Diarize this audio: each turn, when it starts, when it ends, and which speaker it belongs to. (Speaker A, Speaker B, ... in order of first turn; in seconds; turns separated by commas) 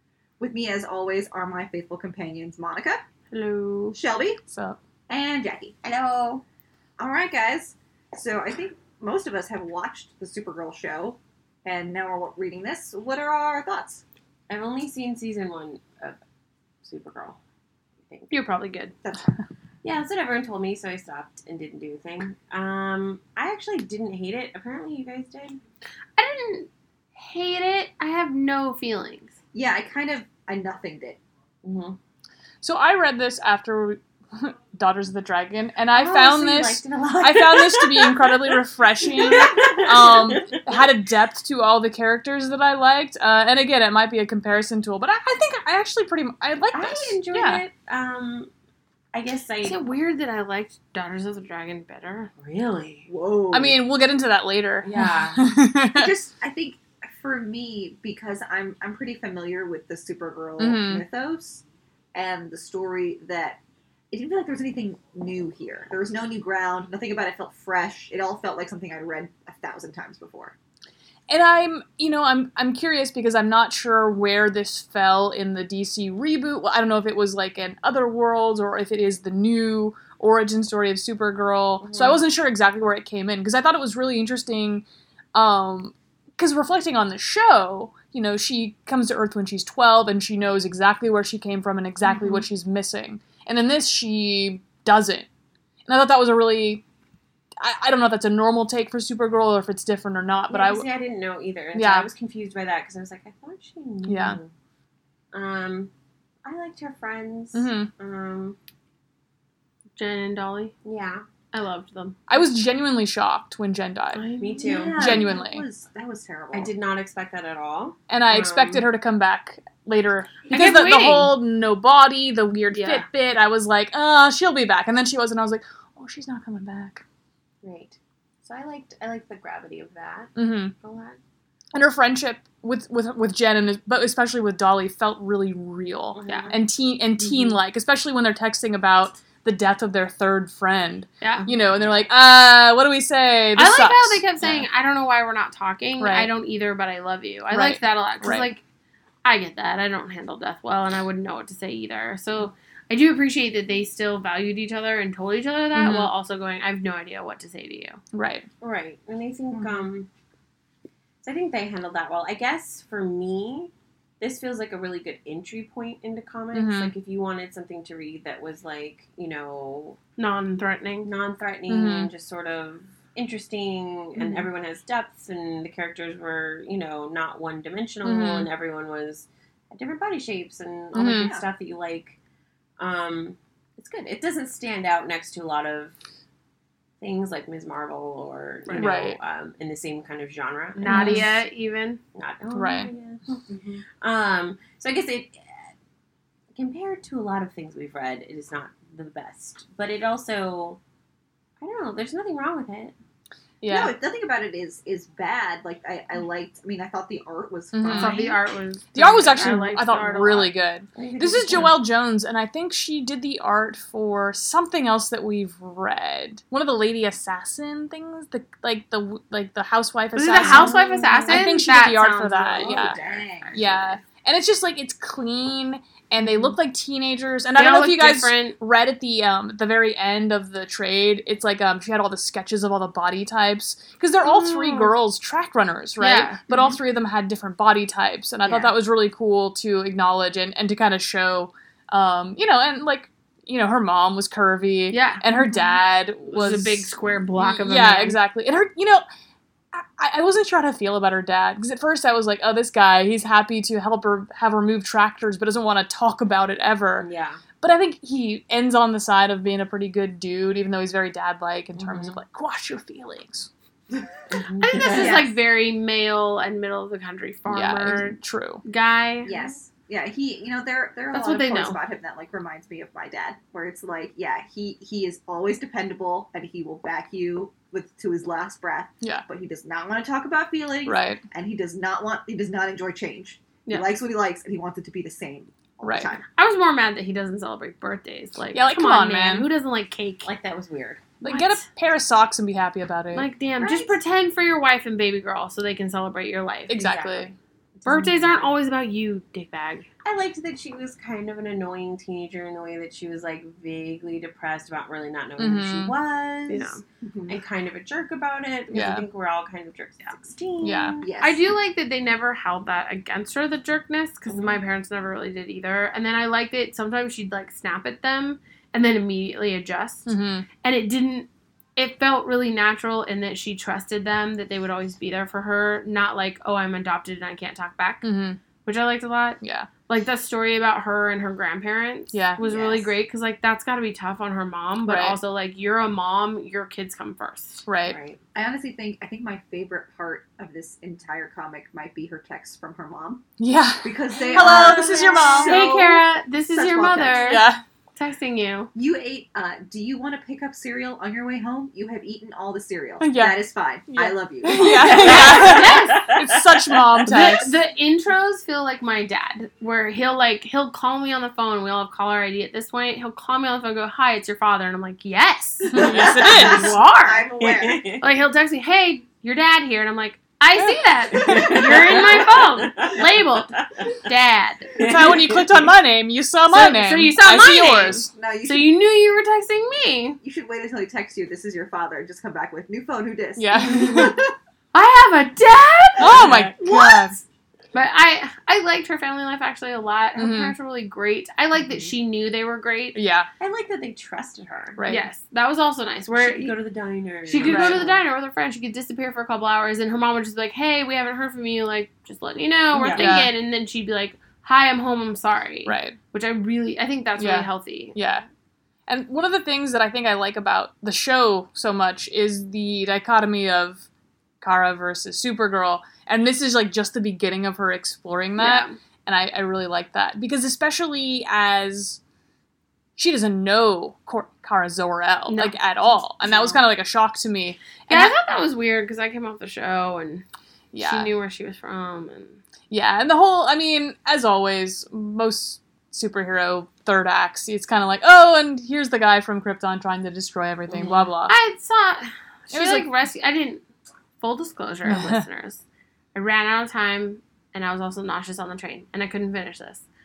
Speaker A: 0.4-3.0, Speaker B: 3.3-4.0, Speaker A: 3.9-4.4, Speaker C: 4.5-4.8, Speaker A: 5.1-5.8, Speaker D: 5.8-6.4, Speaker A: 7.0-14.0, Speaker D: 14.5-16.2, Speaker D: 16.8-17.4, Speaker D: 18.1-18.4, Speaker B: 18.3-19.0, Speaker A: 19.0-19.3, Speaker D: 19.8-25.6, Speaker B: 26.2-29.3, Speaker A: 29.5-31.2, Speaker D: 31.6-32.0, Speaker C: 32.6-47.6, Speaker D: 35.9-38.6, Speaker D: 39.1-40.9, Speaker D: 46.7-48.5, Speaker D: 49.1-49.8, Speaker B: 49.6-52.3, Speaker D: 52.4-53.1, Speaker A: 53.1-53.8, Speaker C: 53.5-56.1, Speaker D: 54.8-55.4, Speaker A: 55.9-63.6, Speaker C: 60.6-61.1, Speaker A: 64.1-70.5, Speaker C: 71.3-95.3, Speaker D: 81.8-82.2, Speaker C: 95.9-96.8, Speaker C: 97.6-100.9, Speaker D: 100.5-104.5, Speaker C: 101.7-102.1, Speaker C: 104.0-104.4, Speaker D: 105.3-105.9, Speaker D: 106.5-108.6, Speaker C: 107.5-107.9, Speaker B: 110.0-110.8, Speaker D: 110.8-111.2, Speaker B: 111.5-112.2, Speaker C: 112.3-114.3, Speaker B: 114.1-114.8, Speaker D: 114.4-115.2, Speaker A: 114.6-116.7, Speaker C: 114.9-115.7, Speaker D: 116.5-118.9, Speaker C: 118.1-127.0, Speaker B: 120.5-121.4, Speaker B: 122.7-123.1, Speaker D: 127.6-131.2, Speaker C: 130.4-130.7, Speaker C: 131.7-144.7, Speaker D: 136.2-136.6, Speaker B: 136.3-136.5, Speaker D: 137.2-137.6, Speaker B: 141.2-141.5, Speaker B: 143.6-148.6, Speaker C: 146.0-146.3, Speaker C: 147.5-148.5, Speaker B: 149.2-158.0, Speaker C: 155.8-156.1, Speaker C: 158.1-158.5, Speaker D: 158.6-160.1, Speaker D: 161.2-170.0, Speaker C: 166.5-166.9, Speaker B: 170.2-171.1, Speaker D: 171.0-182.2, Speaker C: 171.7-172.1, Speaker C: 178.0-178.5, Speaker C: 180.9-181.3, Speaker D: 182.8-186.0, Speaker D: 187.0-191.3, Speaker B: 188.7-188.9, Speaker C: 188.8-189.2, Speaker B: 190.8-192.0, Speaker C: 190.8-191.4, Speaker D: 192.2-193.2, Speaker C: 192.5-192.9, Speaker A: 193.5-193.8, Speaker D: 194.0-195.7, Speaker D: 196.5-200.8, Speaker D: 201.6-203.0, Speaker C: 203.6-204.0, Speaker A: 203.7-208.4, Speaker C: 207.7-208.2, Speaker B: 207.9-210.6, Speaker C: 208.9-220.8, Speaker D: 210.9-211.9, Speaker B: 220.1-222.9, Speaker D: 220.4-221.5, Speaker C: 221.3-223.0, Speaker A: 222.6-223.6, Speaker D: 222.9-223.8, Speaker C: 223.5-249.0, Speaker B: 227.6-228.6, Speaker B: 234.2-234.9, Speaker B: 236.0-236.4, Speaker B: 244.9-248.2, Speaker C: 249.7-257.1, Speaker D: 257.0-257.4, Speaker C: 257.6-263.5, Speaker D: 261.8-262.2, Speaker D: 264.3-265.3, Speaker B: 264.6-269.3, Speaker A: 264.8-265.3, Speaker C: 267.5-268.6, Speaker A: 269.2-286.2, Speaker B: 271.1-271.8, Speaker C: 280.9-281.2, Speaker C: 285.8-286.1, Speaker B: 286.2-290.3, Speaker C: 288.5-289.5, Speaker D: 290.2-291.1, Speaker C: 291.2-293.3, Speaker B: 291.2-291.6, Speaker B: 293.1-297.3, Speaker A: 293.6-294.0, Speaker C: 296.7-297.4, Speaker D: 297.8-298.6, Speaker B: 297.9-299.9, Speaker D: 300.0-311.1, Speaker C: 305.4-305.9, Speaker B: 306.5-306.8, Speaker A: 307.0-307.4, Speaker C: 308.7-309.1, Speaker C: 310.6-310.9, Speaker A: 311.0-311.4, Speaker B: 311.2-337.6, Speaker D: 314.3-314.6, Speaker C: 320.1-320.5, Speaker C: 328.0-328.4, Speaker C: 329.4-329.7, Speaker C: 332.1-332.4, Speaker A: 332.4-332.9, Speaker C: 334.8-335.2, Speaker C: 337.6-338.0, Speaker D: 337.9-338.2, Speaker A: 338.4-343.2, Speaker C: 343.4-345.7, Speaker A: 343.8-347.4, Speaker D: 344.4-345.1, Speaker B: 345.4-348.7, Speaker C: 347.2-347.6, Speaker A: 348.8-355.5, Speaker C: 353.0-357.6, Speaker B: 354.6-356.1, Speaker D: 354.6-356.6, Speaker B: 357.0-367.3, Speaker C: 365.7-366.8, Speaker A: 365.8-367.8, Speaker D: 365.8-366.5, Speaker D: 367.4-368.1, Speaker B: 368.0-374.8, Speaker C: 370.6-371.9, Speaker D: 371.1-373.6, Speaker D: 374.8-375.7, Speaker C: 374.8-378.1, Speaker B: 376.5-380.2, Speaker A: 378.1-378.7, Speaker A: 380.2-384.3, Speaker C: 383.4-384.2, Speaker D: 383.5-384.1, Speaker B: 384.7-393.0, Speaker C: 386.0-387.2, Speaker D: 386.1-386.5, Speaker C: 390.2-390.6, Speaker A: 391.6-391.9, Speaker C: 392.9-393.3, Speaker D: 393.4-394.8, Speaker C: 394.8-395.1, Speaker B: 394.9-396.6, Speaker D: 396.1-398.1, Speaker B: 397.2-408.0, Speaker C: 397.4-397.9, Speaker D: 402.7-403.1, Speaker C: 402.9-403.3, Speaker C: 405.6-406.0, Speaker C: 407.2-408.3, Speaker C: 408.9-413.9, Speaker C: 414.4-422.0, Speaker B: 418.4-418.8, Speaker C: 423.0-428.2, Speaker B: 425.3-426.7, Speaker B: 427.9-430.2, Speaker C: 430.7-431.1, Speaker B: 430.8-432.4, Speaker C: 432.7-441.4, Speaker B: 440.8-443.6, Speaker C: 442.5-442.9, Speaker B: 444.2-445.6, Speaker C: 444.9-445.2, Speaker B: 446.1-449.9